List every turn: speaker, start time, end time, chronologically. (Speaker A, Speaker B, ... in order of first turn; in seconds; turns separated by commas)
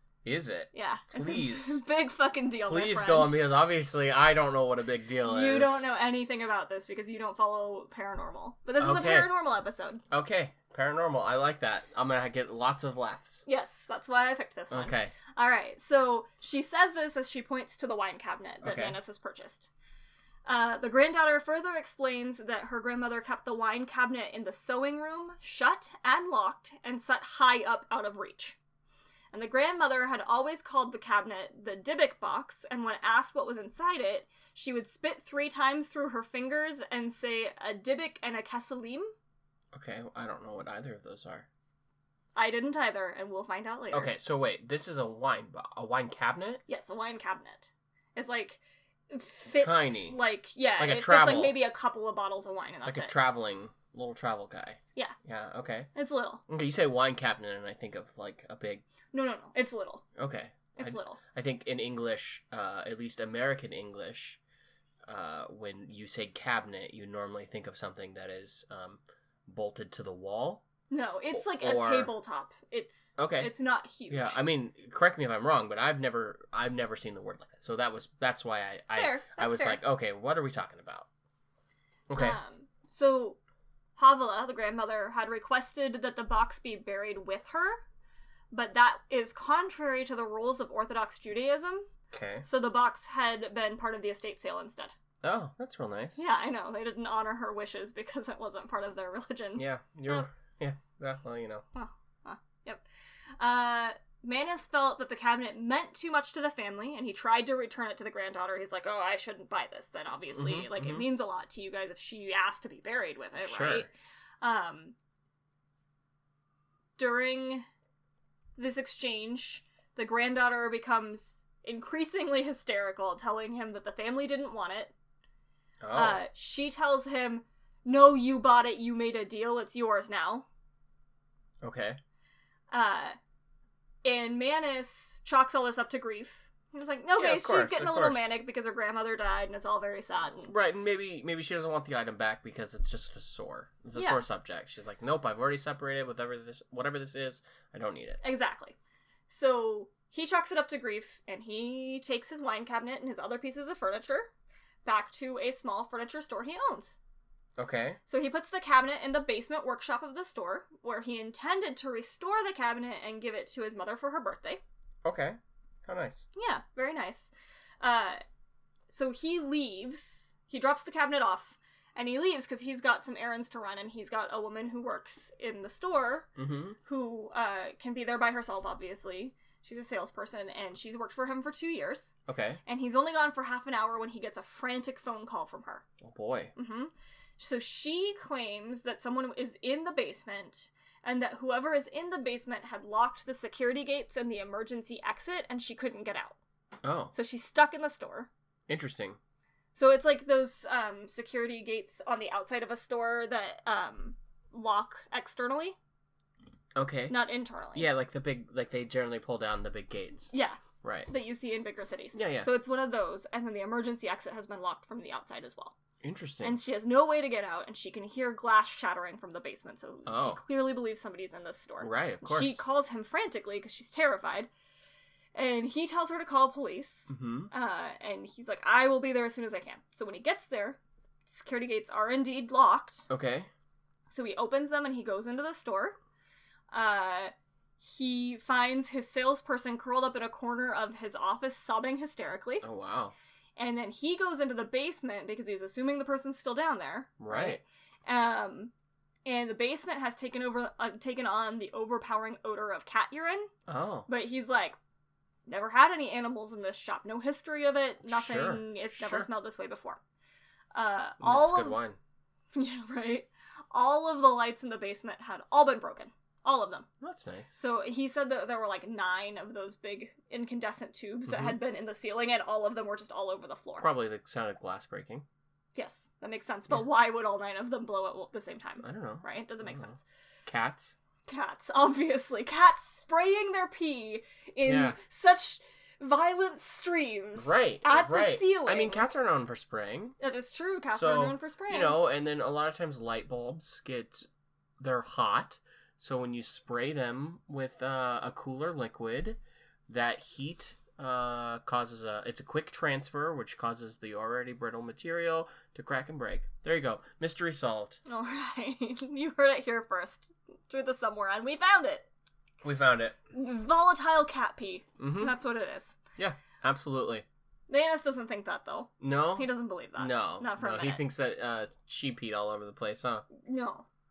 Speaker A: 0.2-1.8, Speaker B: 0.7-3.4, Speaker A: 2.7-5.9, Speaker B: 5.2-10.0, Speaker A: 8.8-9.3, Speaker A: 10.1-13.4, Speaker B: 13.4-19.7, Speaker A: 14.7-15.1, Speaker A: 18.6-19.0, Speaker B: 20.4-28.6, Speaker B: 29.3-39.1, Speaker A: 39.7-41.5, Speaker B: 42.3-44.1, Speaker A: 43.9-46.6, Speaker B: 46.7-53.1, Speaker A: 49.5-50.2, Speaker A: 50.8-51.6, Speaker A: 52.8-55.9, Speaker B: 55.9-56.4, Speaker A: 56.5-58.8, Speaker B: 59.1-60.0, Speaker A: 60.2-64.4, Speaker B: 60.7-61.2, Speaker A: 65.0-70.6, Speaker B: 70.9-74.4, Speaker A: 71.3-72.1, Speaker A: 73.2-73.5, Speaker A: 74.1-81.1, Speaker B: 78.9-79.8, Speaker A: 82.1-82.4, Speaker B: 82.1-83.4, Speaker B: 84.0-87.8, Speaker B: 88.5-91.9, Speaker A: 92.1-92.4, Speaker B: 92.4-94.9, Speaker A: 95.2-96.2, Speaker B: 96.2-100.2, Speaker A: 99.5-101.6, Speaker B: 101.7-102.8, Speaker B: 103.4-113.9, Speaker A: 110.3-111.0, Speaker A: 113.4-113.9, Speaker B: 114.4-114.9, Speaker B: 117.0-117.7, Speaker B: 118.6-124.9, Speaker A: 125.8-126.2, Speaker B: 125.9-130.4, Speaker A: 131.6-132.0, Speaker B: 132.7-133.2, Speaker B: 134.0-140.5, Speaker A: 137.2-138.3, Speaker A: 140.4-148.2, Speaker B: 143.9-144.2, Speaker B: 148.2-148.8, Speaker B: 149.3-154.3, Speaker B: 154.8-157.0, Speaker A: 157.6-158.0, Speaker B: 158.1-164.6, Speaker A: 165.0-166.2, Speaker B: 166.3-168.2, Speaker B: 168.9-176.3, Speaker A: 176.3-176.8, Speaker B: 176.8-182.1, Speaker A: 182.3-182.6, Speaker B: 182.7-185.8, Speaker A: 186.0-186.5, Speaker B: 186.6-196.4, Speaker A: 196.8-197.1, Speaker B: 197.1-198.3, Speaker A: 198.7-199.2, Speaker B: 199.7-205.8, Speaker A: 206.8-207.2, Speaker B: 207.1-207.9, Speaker A: 207.7-211.1, Speaker B: 210.3-215.8, Speaker A: 212.1-212.5, Speaker A: 216.0-216.6, Speaker B: 216.4-224.5, Speaker A: 220.1-220.4, Speaker A: 221.8-222.6, Speaker B: 225.3-233.1, Speaker A: 227.1-227.5, Speaker A: 233.1-233.5, Speaker B: 234.1-236.0, Speaker B: 236.7-242.6, Speaker A: 242.6-243.1, Speaker B: 243.6-248.7, Speaker A: 247.2-247.6, Speaker B: 249.2-253.5, Speaker A: 253.7-254.1, Speaker B: 254.1-254.8, Speaker B: 255.5-260.0, Speaker A: 258.0-259.3, Speaker B: 260.7-261.8, Speaker A: 261.2-262.0, Speaker B: 262.5-266.9, Speaker A: 267.0-267.6, Speaker B: 267.5-273.9, Speaker A: 271.3-271.6, Speaker A: 273.8-275.2, Speaker B: 275.7-280.0, Speaker A: 278.8-280.9, Speaker B: 281.3-289.0, Speaker A: 284.6-285.0, Speaker A: 287.4-290.1, Speaker B: 290.2-292.0, Speaker A: 290.9-294.2, Speaker A: 294.8-308.0, Speaker B: 308.0-312.1, Speaker A: 312.6-313.1, Speaker B: 313.3-316.0, Speaker A: 315.0-315.4, Speaker A: 316.2-317.2, Speaker B: 317.7-321.0, Speaker A: 319.0-323.2, Speaker B: 323.3-323.9